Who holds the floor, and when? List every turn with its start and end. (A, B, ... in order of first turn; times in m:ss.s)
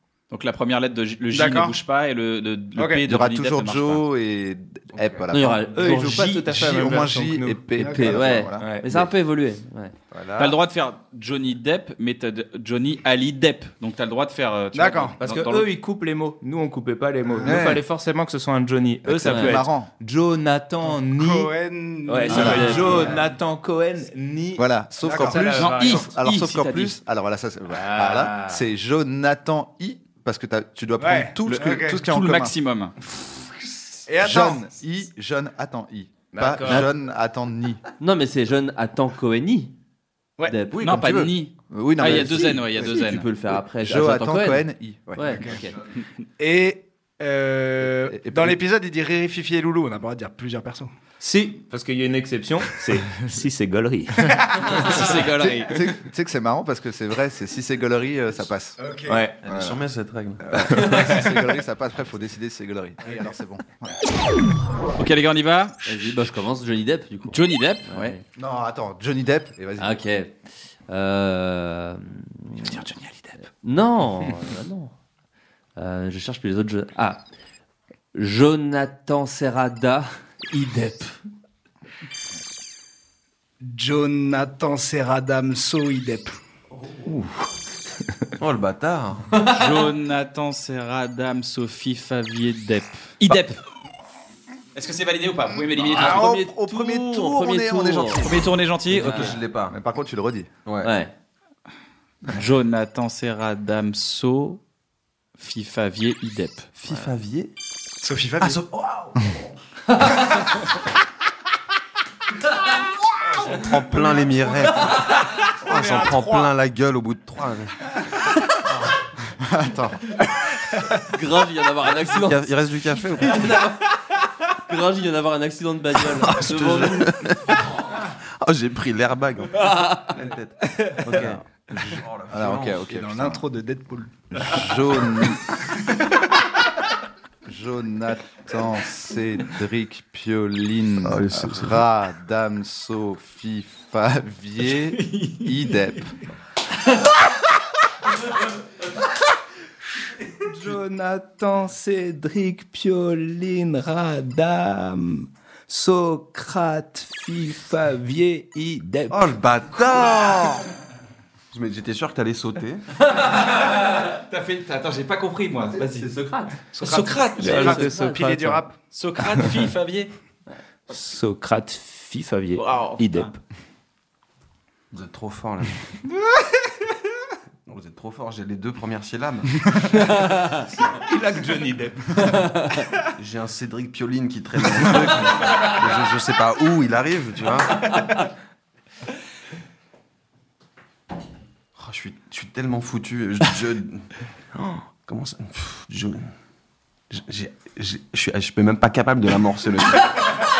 0:00.3-0:04.0 A
0:01.3-0:01.8 B
0:02.8-0:03.0 B
0:03.0-0:09.1 C
0:05.0-0:05.2 D
0:05.3-0:06.4 E
0:05.7-0:07.8 F
0:07.8-0:08.4 B
0:07.8-0:09.9 E
0:08.6-0:08.9 F
0:10.1-0:10.5 D
0:10.4-0:15.7 A
0:14.7-0:15.2 B
0:15.2-0:21.5 F
0:17.4-0:17.8 C
0:19.0-0:19.9 C
0:19.2-0:19.5 E
0:21.0-0:23.3 B
0:22.0-0:26.0 F
0:22.2-0:23.2 E
0:22.3-0:23.0 C
0:24.6-0:32.5 C
0:25.0-0:25.5 B
0:25.6-0:27.0 A
0:27.7-0:28.6 F
0:31.0-0:32.0 B
0:31.4-0:32.9 A
0:34.1-0:34.6 B
0:34.2-0:37.8 C
0:36.3-0:36.9 F
0:38.0-0:39.7 E
0:40.5-0:41.0 E
0:40.7-0:43.0 C
0:40.8-0:43.2 A
0:42.0-0:45.7 E
0:43.8-0:45.5 C
0:45.2-0:45.6 B
0:46.4-0:50.9 B
0:47.8-0:48.6 C
0:51.2-0:54.8 F
0:54.4-0:54.7 B
0:54.8-0:55.8 A
0:54.9-0:58.8 C
0:58.8-0:59.2 B
0:59.1-0:59.4 F
0:59.4-1:00.7 D
0:59.5-0:59.8 C
1:00.4-1:03.9 C
1:00.8-1:01.2 F
1:05.0-1:06.2 A
1:05.8-1:08.2 E
1:07.3-1:08.1 A
1:08.4-1:10.0 C
1:09.8-1:10.4 E
1:10.9-1:12.7 E
1:12.6-1:13.4 C
1:13.6-1:14.9 E
1:15.8-1:17.2 E
1:18.1-1:21.2 E
1:23.6-1:26.4 B
1:27.0-1:27.3 F
1:28.4-1:29.5 D
1:29.4-1:33.6 A
1:34.7-1:36.4 A
1:35.8-1:38.5 C
1:36.0-1:38.3 E
1:38.2-1:39.3 A
1:38.9-1:39.8 D
1:38.9-1:39.3 E
1:39.6-1:40.5 C
1:40.6-1:40.9 D
1:40.8-1:41.1 E
1:42.3-1:44.6 A
1:45.4-1:46.7 A
1:46.8-1:47.5 D
1:48.0-1:48.7 B
1:53.4-1:57.8 D
1:55.7-1:56.5 B
1:59.4-2:00.2 C
2:01.1-2:02.5 E
2:02.1-2:03.6 D
2:03.2-2:03.9 E
2:04.7-2:07.2 E
2:06.0-2:13.0 D
2:09.6-2:10.1 E
2:12.3-2:13.4 C
2:12.9-2:14.2 B
2:14.3-2:15.4 C
2:17.4-2:26.1 C
2:21.0-2:21.8 D
2:25.0-2:25.4 A
2:30.4-2:39.3 F
2:39.1-2:40.6 D
2:41.5-2:42.8 D
2:43.2-2:46.1 A
2:46.1-2:46.5 E
2:46.7-2:48.8 B
2:46.8-2:47.8 A
2:47.4-2:48.6 F
2:47.6-2:48.2 E
2:48.9-2:50.1 A
2:50.9-2:53.4 F
2:52.5-2:53.3 A
2:54.9-2:55.8 D
2:57.6-3:00.2 D
3:00.8-3:02.5 F
3:03.2-3:08.1 D
3:11.8-3:16.3 D
3:17.1-3:20.4 D